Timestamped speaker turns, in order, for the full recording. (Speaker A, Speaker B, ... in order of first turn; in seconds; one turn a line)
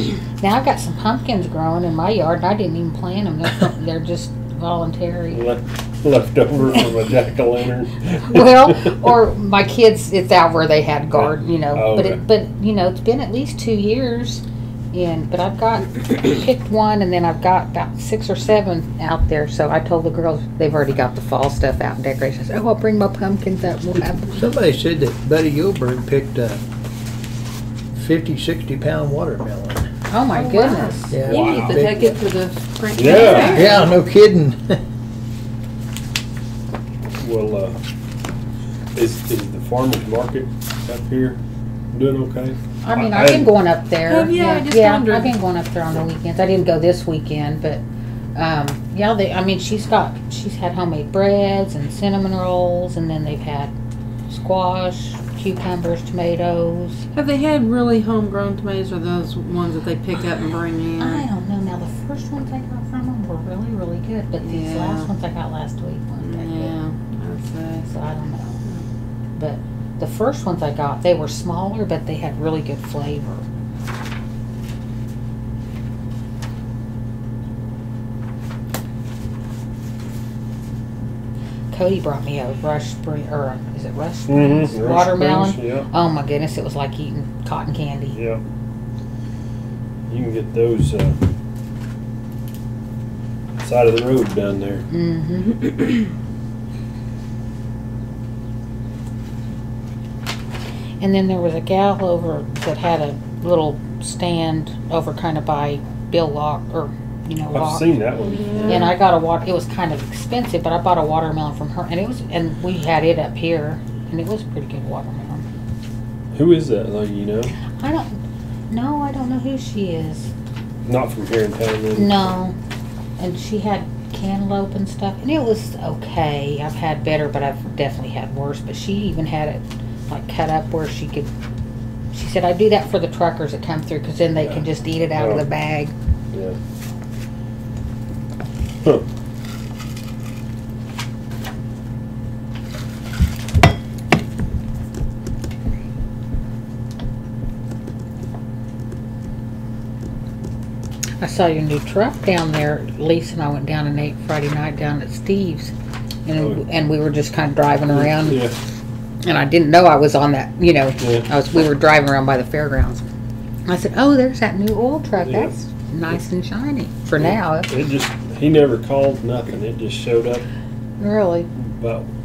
Speaker A: 0.4-5.4
Speaker B: 5.3-9.1
Speaker A: 8.2-24.5
Speaker B: 11.1-12.2
Speaker C: 24.3-26.6
Speaker C: 27.9-29.9
Speaker A: 30.1-31.2
Speaker D: 30.3-34.0
Speaker C: 31.1-32.2
Speaker B: 31.2-31.8
Speaker B: 32.9-33.7
Speaker C: 33.1-34.8
Speaker A: 33.3-33.7
Speaker B: 37.2-37.8
Speaker B: 38.9-41.4
Speaker B: 41.9-43.5
Speaker A: 42.8-47.8
Speaker D: 44.0-45.4
Speaker A: 48.4-53.7
Speaker A: 54.3-57.0
Speaker D: 57.1-61.3
Speaker A: 61.0-66.8
Speaker D: 64.4-65.1
Speaker D: 66.2-67.9
Speaker A: 67.9-68.6
Speaker A: 69.3-73.5
Speaker A: 81.7-88.2
Speaker B: 84.3-85.9
Speaker B: 88.1-88.4
Speaker B: 90.1-91.2
Speaker B: 93.6-94.9
Speaker A: 94.9-95.8
Speaker A: 101.0-108.0
Speaker B: 107.5-109.0
Speaker D: 108.3-108.9
Speaker A: 108.6-115.5
Speaker B: 116.3-117.5
Speaker A: 117.7-120.3
Speaker B: 120.9-122.3
Speaker A: 122.0-122.5
Speaker A: 123.2-131.3
Speaker A: 132.1-135.9
Speaker B: 134.4-135.4
Speaker B: 136.3-136.6
Speaker A: 151.2-155.7
Speaker A: 156.2-158.5
Speaker B: 156.3-156.6
Speaker B: 157.9-158.6
Speaker A: 159.2-163.1
Speaker B: 161.0-161.3
Speaker A: 163.7-167.7
Speaker B: 165.1-166.2
Speaker B: 167.2-170.4
Speaker A: 171.0-171.5
Speaker B: 171.6-172.1